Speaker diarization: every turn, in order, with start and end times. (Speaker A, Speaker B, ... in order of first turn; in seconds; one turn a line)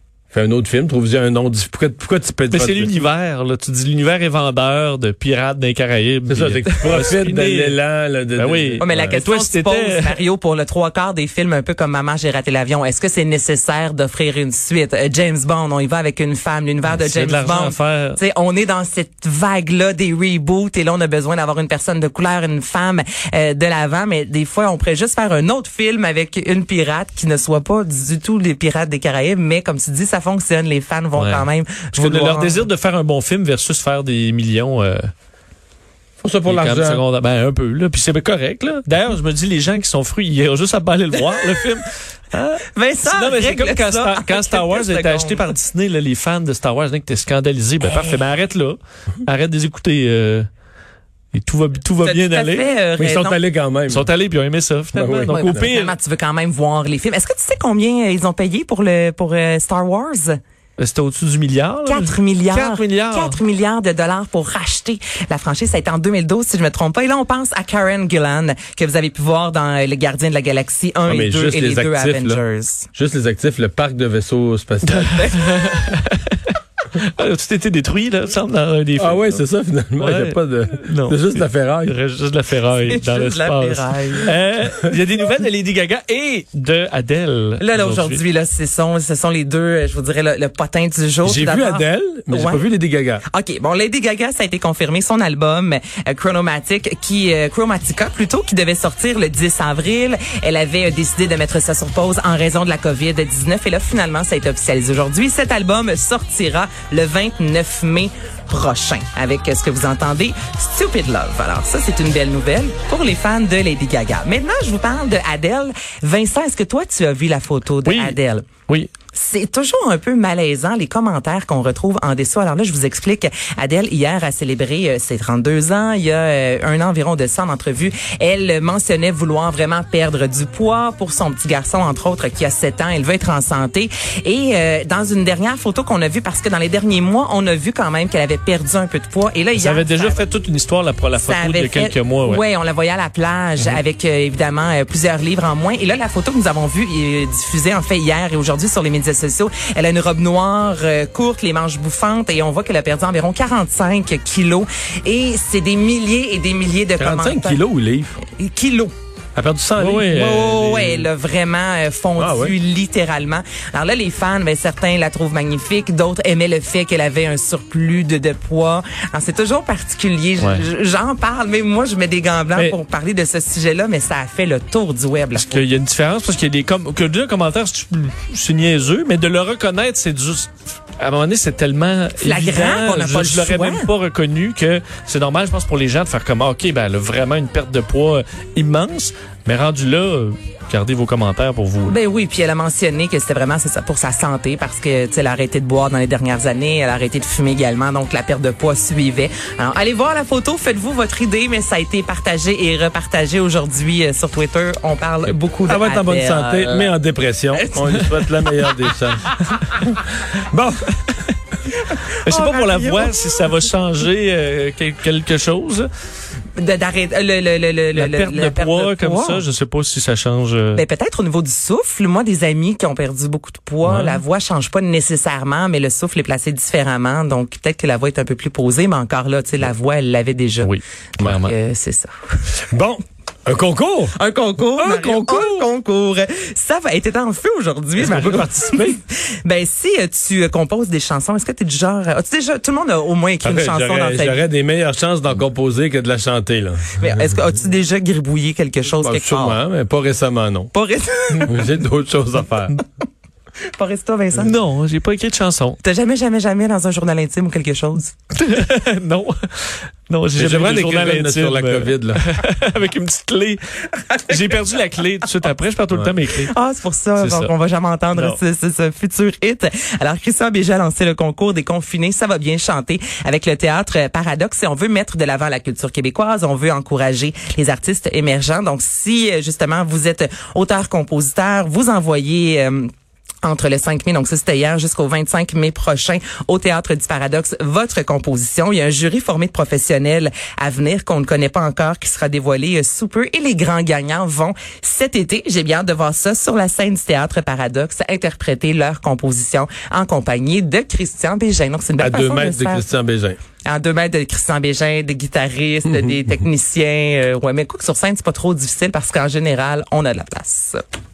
Speaker A: 0.3-2.9
Speaker B: 2.5-7.8
Speaker A: 6.3-9.2
Speaker B: 8.3-10.2
Speaker C: 8.8-32.6
Speaker B: 16.9-18.2
Speaker B: 31.1-35.1
Speaker A: 36.2-37.0
Speaker B: 36.5-50.5
Speaker C: 42.7-45.5
Speaker C: 47.9-48.2
Speaker B: 51.3-52.7
Speaker C: 52.0-53.4
Speaker A: 53.0-54.1
Speaker B: 53.9-55.9
Speaker A: 54.9-55.7
Speaker C: 55.3-60.4
Speaker B: 60.8-63.4
Speaker C: 61.9-72.9
Speaker A: 71.0-72.4
Speaker A: 72.9-75.3
Speaker B: 74.8-79.4
Speaker C: 75.1-75.7
Speaker A: 79.0-81.9
Speaker B: 80.0-88.2
Speaker C: 82.9-84.3
Speaker C: 87.6-92.6
Speaker A: 91.2-93.2
Speaker C: 93.3-118.5
Speaker B: 117.8-118.9
Speaker C: 119.1-140.2
Speaker B: 139.6-142.4
Speaker C: 141.2-157.6
Speaker A: 157.0-158.2
Speaker C: 158.2-158.9
Speaker A: 159.3-160.1
Speaker B: 159.8-161.1
Speaker C: 160.0-175.6
Speaker A: 162.2-162.5
Speaker B: 170.4-170.6
Speaker B: 175.3-191.9
Speaker C: 182.2-183.9
Speaker C: 191.8-206.9
Speaker A: 205.3-211.0
Speaker C: 207.5-208.3
Speaker C: 211.9-213.2
Speaker B: 212.2-215.9
Speaker C: 216.6-219.4
Speaker B: 217.9-220.8
Speaker C: 220.7-230.7
Speaker B: 223.8-224.2
Speaker B: 230.6-231.5
Speaker C: 231.4-232.1
Speaker A: 232.7-234.2
Speaker C: 234.1-244.4
Speaker A: 234.7-235.7
Speaker A: 238.0-239.0
Speaker A: 243.4-247.1
Speaker C: 247.0-249.6
Speaker A: 249.0-250.7
Speaker C: 250.7-251.7
Speaker A: 251.4-252.8
Speaker C: 253.7-254.6
Speaker B: 254.3-255.8
Speaker C: 255.8-258.1
Speaker B: 258.3-263.6
Speaker A: 260.4-262.2
Speaker C: 264.1-264.4
Speaker B: 264.3-266.5
Speaker C: 266.3-282.9
Speaker B: 267.2-267.5
Speaker C: 283.4-302.8
Speaker A: 302.0-303.4
Speaker C: 303.6-310.8